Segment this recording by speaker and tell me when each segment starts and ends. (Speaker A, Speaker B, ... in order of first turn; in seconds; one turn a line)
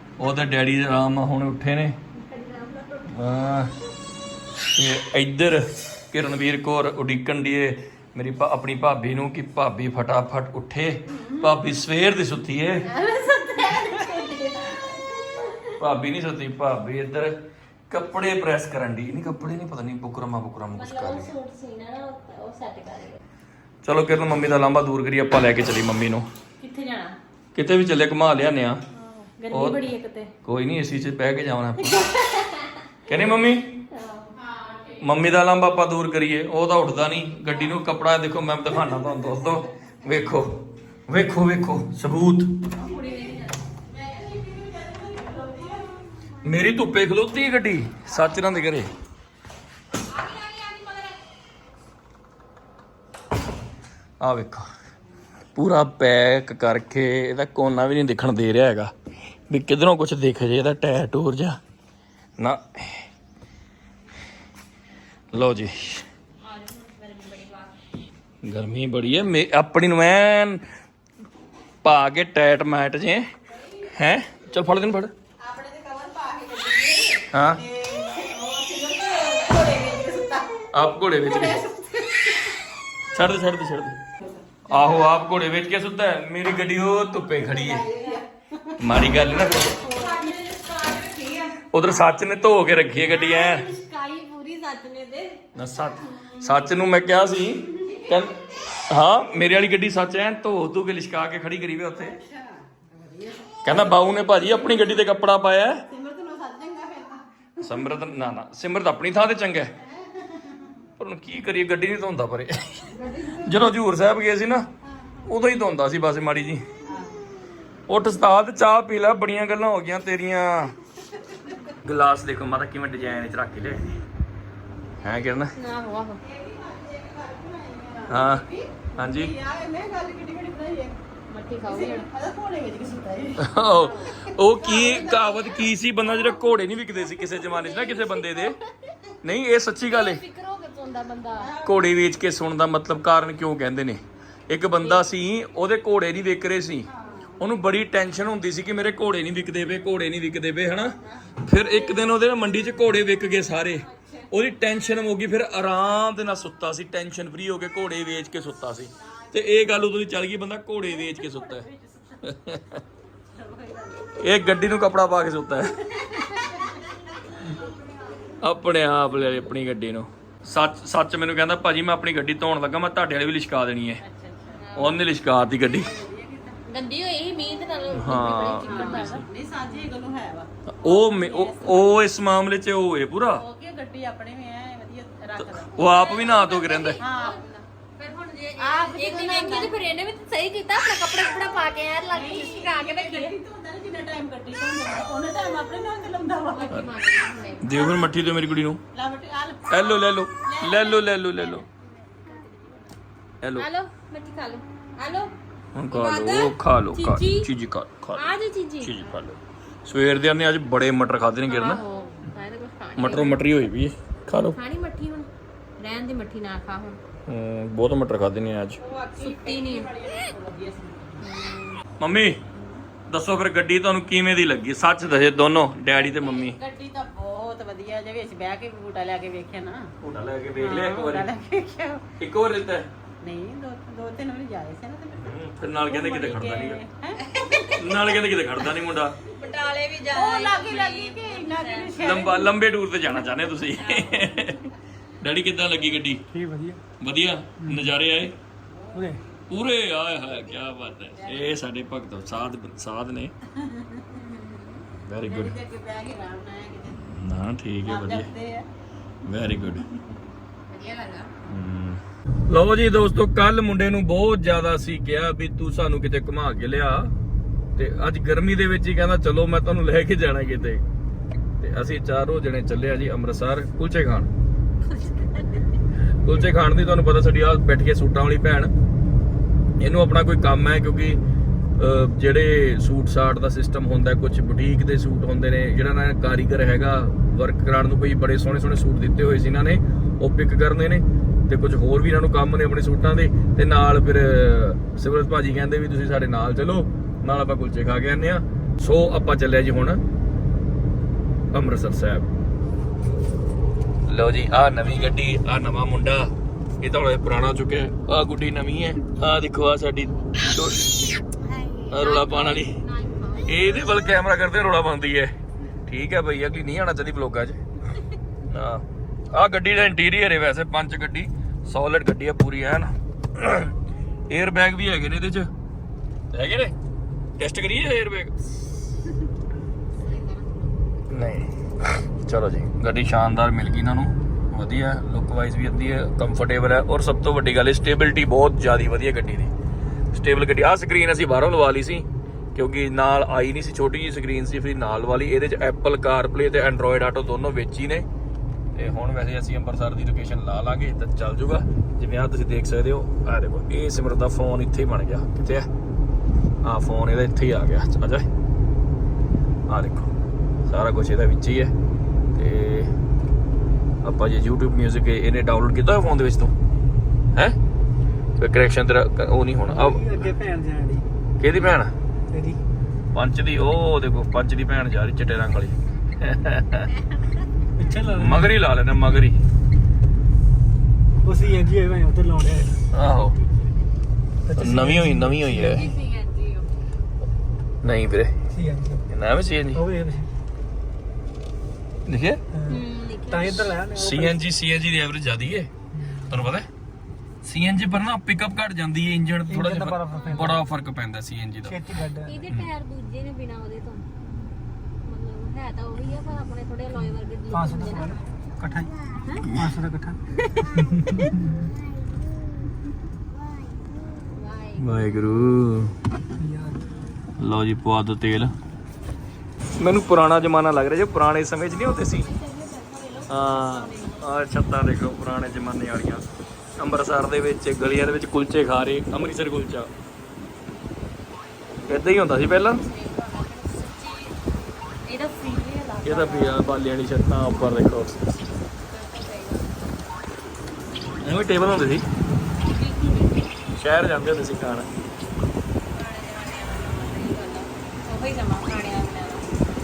Speaker A: 0.2-2.0
Speaker B: 2.2-3.1
Speaker A: 3.1-3.7
Speaker A: 4.8-12.9
Speaker B: 12.9-15.5
Speaker C: 13.8-14.2
Speaker A: 15.8-17.4
Speaker A: 17.9-21.3
Speaker B: 20.8-23.2
Speaker A: 23.8-26.3
Speaker B: 26.6-27.2
Speaker A: 27.6-28.8
Speaker B: 28.9-30.3
Speaker A: 29.5-29.8
Speaker A: 30.4-32.1
Speaker B: 32.1-32.6
Speaker A: 33.1-33.7
Speaker B: 33.9-34.3
Speaker C: 34.3-35.0
Speaker A: 35.0-40.5
Speaker A: 41.1-42.5
Speaker B: 42.8-43.6
Speaker C: 43.8-46.0
Speaker A: 46.4-48.9
Speaker B: 50.1-51.1
Speaker A: 54.2-54.7
Speaker A: 55.5-58.9
Speaker A: 59.5-61.6
Speaker A: 62.4-63.1
Speaker A: 65.3-66.0
Speaker B: 66.4-67.7
Speaker A: 68.4-70.6
Speaker A: 71.8-73.3
Speaker A: 73.8-75.1
Speaker C: 75.4-80.7
Speaker A: 77.3-77.6
Speaker A: 80.7-81.6
Speaker C: 81.2-82.5
Speaker A: 83.1-84.0
Speaker A: 84.7-87.9
Speaker C: 87.2-88.8
Speaker A: 88.8-89.8
Speaker B: 89.8-91.6
Speaker C: 89.8-90.3
Speaker A: 91.7-93.7
Speaker B: 93.1-96.5
Speaker A: 95.5-102.2
Speaker C: 97.9-98.2
Speaker C: 101.9-104.9
Speaker A: 103.6-105.9
Speaker C: 105.9-107.2
Speaker A: 107.6-109.7
Speaker C: 110.0-110.7
Speaker A: 111.0-114.7
Speaker C: 113.0-113.6
Speaker A: 115.2-116.6
Speaker C: 116.9-117.1
Speaker A: 117.9-120.8
Speaker A: 121.7-123.9
Speaker A: 125.0-125.5
Speaker B: 125.5-126.2
Speaker C: 126.2-131.0
Speaker A: 128.1-129.3
Speaker B: 131.3-132.1
Speaker C: 131.6-135.4
Speaker A: 133.4-138.6
Speaker A: 139.2-140.2
Speaker B: 139.9-141.5
Speaker C: 141.4-141.9
Speaker A: 141.6-161.7
Speaker B: 144.8-145.1
Speaker C: 146.9-147.4
Speaker C: 153.9-154.2
Speaker C: 159.0-159.6
Speaker C: 160.9-162.2
Speaker A: 162.2-162.8
Speaker C: 163.3-164.2
Speaker A: 164.2-165.8
Speaker C: 166.0-166.8
Speaker C: 167.4-167.6
Speaker A: 168.4-174.0
Speaker C: 174.0-174.6
Speaker B: 174.6-175.0
Speaker A: 174.8-175.9
Speaker C: 175.6-176.6
Speaker B: 176.7-179.8
Speaker A: 177.9-179.0
Speaker C: 177.9-182.0
Speaker A: 180.8-183.4
Speaker C: 183.3-186.0
Speaker A: 185.4-187.0
Speaker B: 185.8-187.4
Speaker C: 187.0-187.4
Speaker B: 188.0-193.3
Speaker C: 188.6-189.8
Speaker C: 192.1-196.7
Speaker B: 196.5-198.1
Speaker A: 197.6-198.8
Speaker C: 198.9-202.9
Speaker A: 199.7-201.6
Speaker A: 203.4-203.7
Speaker B: 203.6-205.3
Speaker A: 205.8-211.8
Speaker B: 205.9-207.5
Speaker B: 208.2-209.1
Speaker B: 211.5-213.4
Speaker A: 213.0-214.6
Speaker B: 214.5-215.3
Speaker B: 215.8-217.0
Speaker A: 217.3-218.8
Speaker C: 218.8-221.3
Speaker B: 219.2-219.9
Speaker B: 221.2-221.8
Speaker A: 222.0-222.4
Speaker C: 222.6-222.8
Speaker A: 223.1-226.6
Speaker C: 226.1-229.9
Speaker A: 230.0-231.3
Speaker C: 230.6-232.1
Speaker A: 232.2-232.9
Speaker C: 233.2-237.4
Speaker A: 235.1-236.8
Speaker B: 237.3-237.7
Speaker A: 237.7-239.2
Speaker B: 239.3-242.2
Speaker C: 240.1-242.5
Speaker A: 242.0-246.2
Speaker B: 243.9-244.5
Speaker D: 246.3-246.8
Speaker A: 247.0-248.3
Speaker D: 247.6-247.9
Speaker D: 248.9-249.2
Speaker A: 249.5-253.3
Speaker C: 251.2-251.4
Speaker C: 253.6-254.2
Speaker B: 254.1-254.8
Speaker A: 255.0-255.6
Speaker C: 255.2-257.0
Speaker A: 257.0-258.3
Speaker C: 257.9-258.7
Speaker A: 259.2-259.9
Speaker C: 260.7-261.3
Speaker A: 261.4-267.1
Speaker A: 267.8-270.8
Speaker A: 271.6-274.3
Speaker A: 276.2-278.7
Speaker A: 279.8-281.2
Speaker A: 281.8-300.0
Speaker A: 301.5-302.3
Speaker A: 304.1-311.0
Speaker B: 311.9-313.9
Speaker A: 311.9-312.8
Speaker A: 313.4-315.3
Speaker A: 315.9-317.6
Speaker A: 318.5-323.7
Speaker A: 324.3-325.5
Speaker A: 326.3-326.7
Speaker A: 327.4-328.3
Speaker B: 330.0-330.8
Speaker A: 331.1-339.5
Speaker A: 340.1-348.1
Speaker A: 348.7-355.7
Speaker A: 356.6-358.3
Speaker A: 359.7-360.1
Speaker A: 360.7-361.7
Speaker A: 362.3-362.9
Speaker A: 364.0-366.5
Speaker A: 368.4-370.2
Speaker D: 369.7-371.1
Speaker A: 371.4-371.9
Speaker D: 372.3-372.6
Speaker A: 373.1-376.9
Speaker D: 377.8-378.5
Speaker A: 378.1-379.4
Speaker D: 381.2-382.8
Speaker A: 382.9-383.4
Speaker D: 384.4-385.9
Speaker A: 384.6-385.8
Speaker B: 385.7-386.6
Speaker A: 387.8-388.3
Speaker D: 388.5-389.1
Speaker A: 389.1-389.8
Speaker D: 389.7-390.3
Speaker A: 392.1-392.4
Speaker D: 392.5-394.4
Speaker B: 392.7-393.8
Speaker A: 393.9-395.7
Speaker D: 395.9-396.3
Speaker A: 396.2-396.7
Speaker A: 397.4-401.8
Speaker D: 399.5-400.6
Speaker B: 400.1-400.4
Speaker D: 401.6-402.4
Speaker B: 402.2-404.1
Speaker B: 405.1-408.2
Speaker D: 407.5-410.2
Speaker B: 410.4-410.7
Speaker D: 410.9-411.4
Speaker B: 414.3-415.4
Speaker A: 414.8-415.9
Speaker D: 416.4-416.9
Speaker A: 417.4-418.5
Speaker A: 419.8-422.3
Speaker B: 422.0-424.3
Speaker A: 423.3-426.3
Speaker A: 426.8-429.9
Speaker A: 431.9-432.8
Speaker B: 432.6-434.4
Speaker B: 435.1-436.6
Speaker A: 436.1-438.2
Speaker B: 438.9-439.6
Speaker A: 441.2-442.1
Speaker B: 442.7-443.3
Speaker A: 443.8-444.9
Speaker B: 445.9-449.5